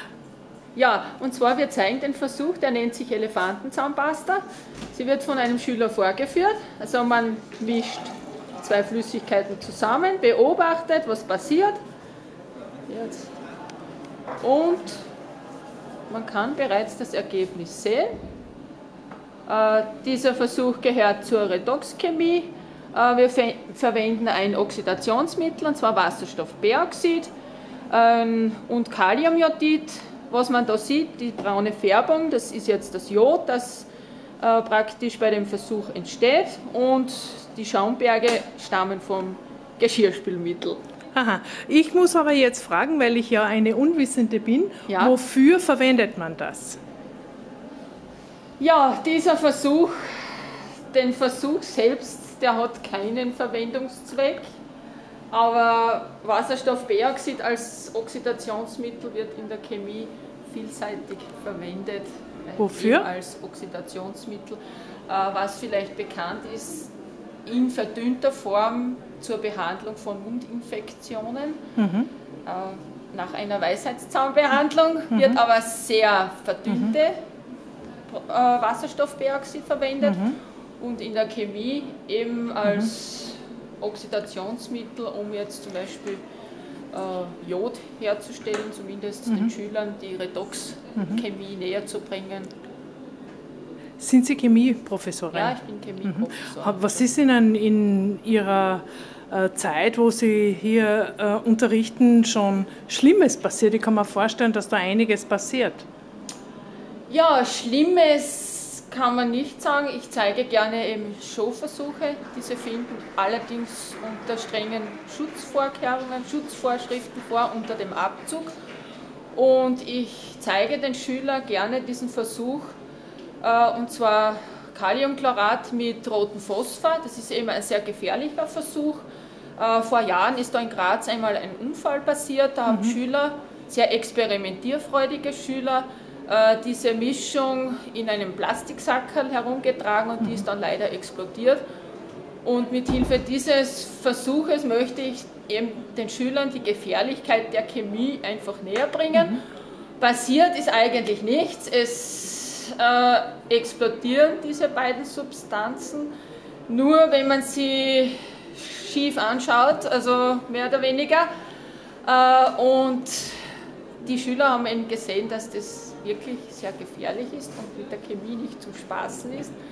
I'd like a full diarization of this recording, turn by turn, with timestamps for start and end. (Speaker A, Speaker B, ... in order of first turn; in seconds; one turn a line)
Speaker A: 0.7-4.4
Speaker A: 4.9-11.8
Speaker A: 12.9-13.3
Speaker A: 14.4-15.0
Speaker A: 16.1-18.1
Speaker A: 19.5-27.3
Speaker A: 27.9-33.9
Speaker A: 34.4-40.8
Speaker B: 41.1-46.8
Speaker A: 44.9-45.1
Speaker A: 48.6-54.4
Speaker A: 55.3-66.9
Speaker B: 62.6-63.0
Speaker A: 67.4-71.6
Speaker B: 71.8-72.1
Speaker A: 72.5-77.1
Speaker A: 78.1-86.2
Speaker B: 80.0-80.4
Speaker A: 86.9-92.5
Speaker B: 94.0-95.5
Speaker A: 95.3-97.1
Speaker B: 96.1-105.9
Speaker A: 107.1-118.5
Speaker A: 119.3-122.8
Speaker A: 123.4-129.0
Speaker A: 129.6-141.6
Speaker A: 142.4-149.4
Speaker A: 150.0-156.1
Speaker A: 156.7-161.3
Speaker A: 162.1-163.4
Speaker A: 164.0-169.6